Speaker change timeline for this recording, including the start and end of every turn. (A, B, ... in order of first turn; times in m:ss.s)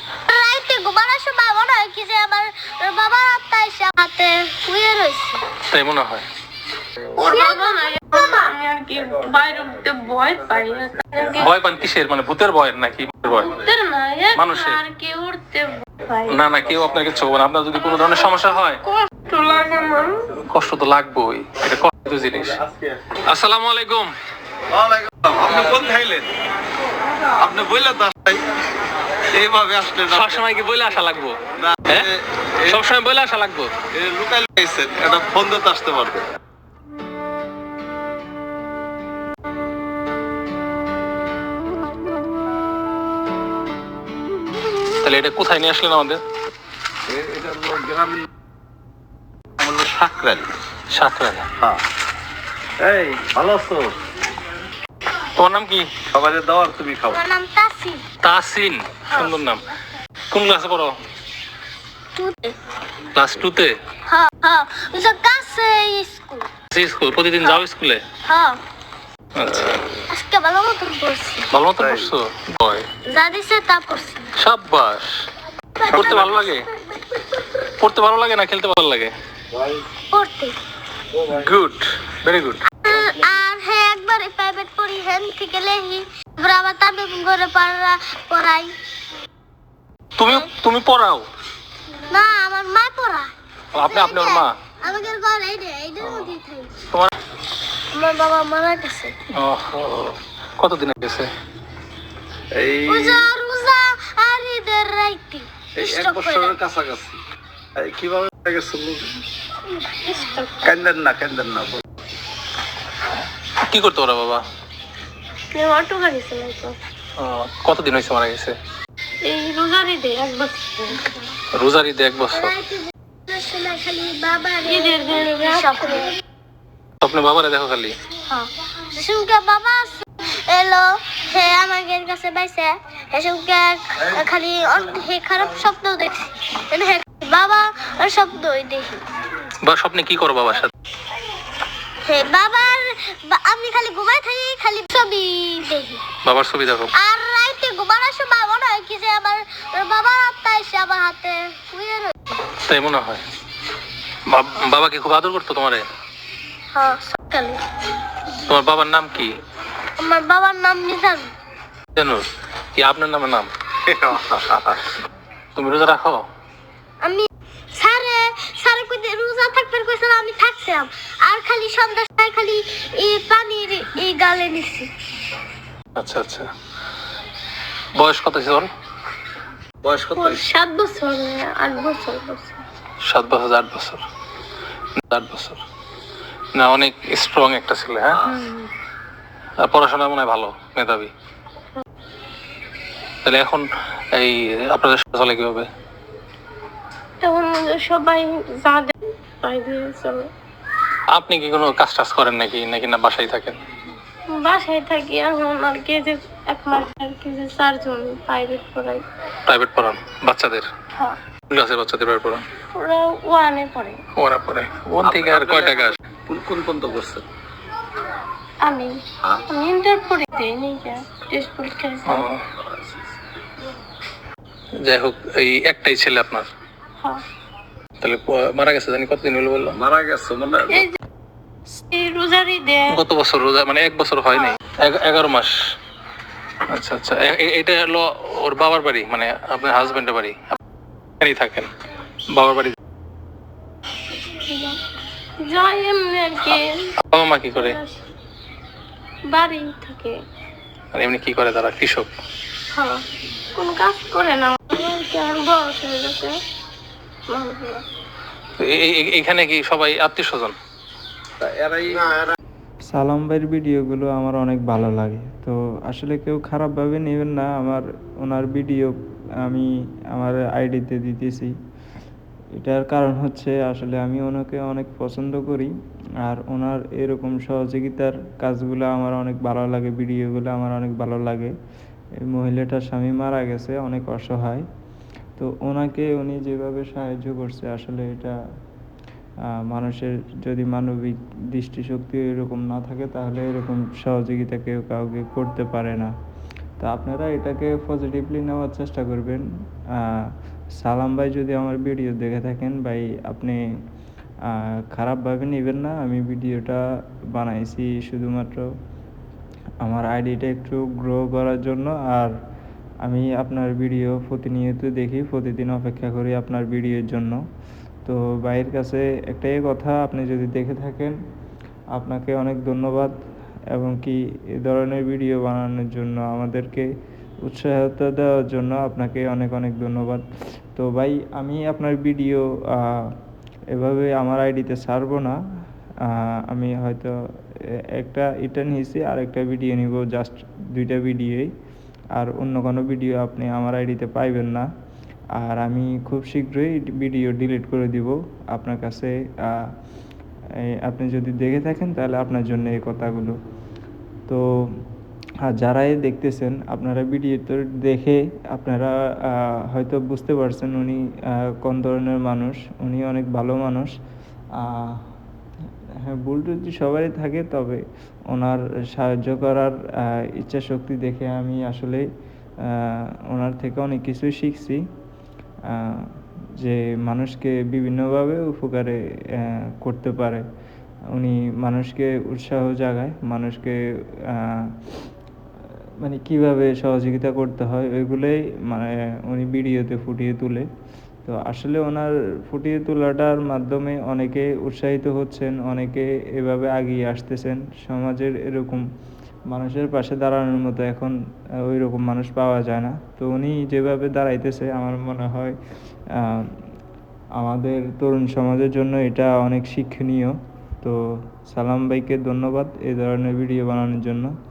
0:00.3-0:05.4 A
0:05.7-0:06.2 B
0:07.1-0:11.5 C
0:07.2-0:08.3 A
0:11.4-0:13.6 B
0:13.3-0:16.4 C
0:14.3-0:14.8 B
0:16.3-0:18.8 B
0:18.9-0:20.3 C
0:20.4-0:22.6 B
0:23.3-0:24.1 B
0:24.7-0:26.3 D
0:27.4-0:28.4 D
0:29.3-0:30.4 D
0:30.1-0:32.1 B
0:31.6-0:32.1 D
0:32.6-0:33.7 B
0:33.9-0:36.2 D
0:45.0-0:46.2 B
0:47.1-0:48.2 D
0:49.6-0:50.5 D
0:50.9-0:51.5 B
0:52.8-0:53.9 D
0:55.3-0:55.9 B
0:56.1-0:57.2 D
0:57.1-0:58.0 A
0:58.2-0:59.6 B
1:00.3-1:01.0 B
1:02.1-1:02.6 A
1:03.1-1:03.8 B
1:04.0-1:06.5 A
1:06.7-1:08.0 B
1:08.2-1:08.6 A
1:09.3-1:09.8 B
1:10.1-1:11.5 A
1:11.5-1:12.8 B
1:11.8-1:12.0 D
1:13.1-1:14.3 A
1:14.4-1:15.2 B
1:15.8-1:16.6 A
1:15.9-1:16.7 B
1:17.8-1:19.1 B
1:20.1-1:20.5 A
1:21.3-1:22.6 B
1:22.8-1:28.7 A
1:30.2-1:31.3 B
1:32.1-1:36.7 A
1:33.7-1:34.6 B
1:36.0-1:36.3 B
1:37.9-1:39.1 A
1:39.3-1:41.3 B
1:42.5-1:43.2 D
1:42.8-1:46.6 A
1:45.8-1:47.2 D
1:47.8-1:49.1 D
1:50.0-1:50.7 C
1:50.6-1:51.8 D
1:53.7-1:54.4 B
1:55.5-1:56.8 C
1:57.2-1:58.6 B
1:59.2-2:01.0 C
2:01.5-2:02.5 B
2:02.3-2:06.2 A
2:04.6-2:06.0 C
2:07.0-2:08.0 B
2:08.2-2:19.0 A
2:19.6-2:20.7 B
2:22.0-2:26.0 A
2:26.2-2:26.9 B
2:26.9-2:32.4 A
2:32.7-2:33.2 B
2:34.3-2:35.9 B
2:36.7-2:37.6 A
2:38.4-2:39.4 B
2:40.0-2:41.3 A
2:41.9-2:42.2 B
2:42.8-2:43.5 B
2:43.8-2:44.8 D
2:45.5-2:46.2 B
2:47.0-2:54.9 A
2:56.0-2:56.5 B
2:57.9-2:58.7 B
2:59.8-3:00.4 D
3:00.1-3:02.6 C
3:03.0-3:04.0 B
3:05.0-3:05.6 B
3:06.6-3:08.3 B
3:08.1-3:08.4 D
3:08.3-3:08.7 C
3:09.6-3:11.1 B
3:13.2-3:15.7 B
3:17.2-3:20.3 C
3:21.1-3:23.6 B
3:24.3-3:29.0 C
3:29.5-3:30.7 B
3:31.5-3:32.4 B
3:32.7-3:34.0 C
3:34.2-3:36.0 B
3:35.0-3:37.2 D
3:38.6-3:39.0 C
3:39.5-3:42.3 C
3:42.0-3:42.4 B
3:44.8-3:46.5 B
3:48.0-3:49.8 B
3:49.7-3:50.9 D
3:50.7-3:50.9 C
3:51.7-3:53.0 C
3:52.9-3:55.5 B
3:56.7-4:00.6 B
4:01.2-4:01.7 B
4:02.3-4:02.7 B
4:04.2-4:04.8 C
4:05.4-4:06.9 C
4:06.5-4:07.8 B
4:07.5-4:08.0 C
4:09.3-4:10.2 C
4:10.9-4:12.1 B
4:12.7-4:13.0 C
4:13.6-4:16.4 C
4:17.3-4:17.8 C
4:18.6-4:20.6 B
4:21.4-4:22.3 D
4:22.9-4:31.5 E
4:32.6-4:35.7 E
4:36.2-4:41.5 E
4:42.2-4:44.6 E
4:45.4-4:48.4 E
4:49.5-4:56.1 E
4:56.8-5:03.6 E
5:04.4-5:06.8 E
5:07.3-5:08.7 E
5:09.8-5:12.3 E
5:13.0-5:17.4 E
5:18.0-5:21.2 E
5:21.9-5:23.2 E
5:23.7-5:26.9 E
5:27.4-5:33.2 E
5:33.7-5:35.4 E
5:36.0-5:41.5 E
5:42.1-5:44.7 E
5:45.4-5:49.7 E
5:50.6-5:53.4 E
5:54.3-5:54.8 E
5:55.5-6:03.9 E
6:04.6-6:05.1 E
6:06.0-6:12.0 E
6:12.6-6:14.8 E
6:15.6-6:20.4 E
6:21.1-6:24.9 E
6:26.0-6:30.6 E
6:31.2-6:38.8 E
6:39.5-6:45.6 E
6:46.1-6:46.6 E
6:47.4-6:54.3 E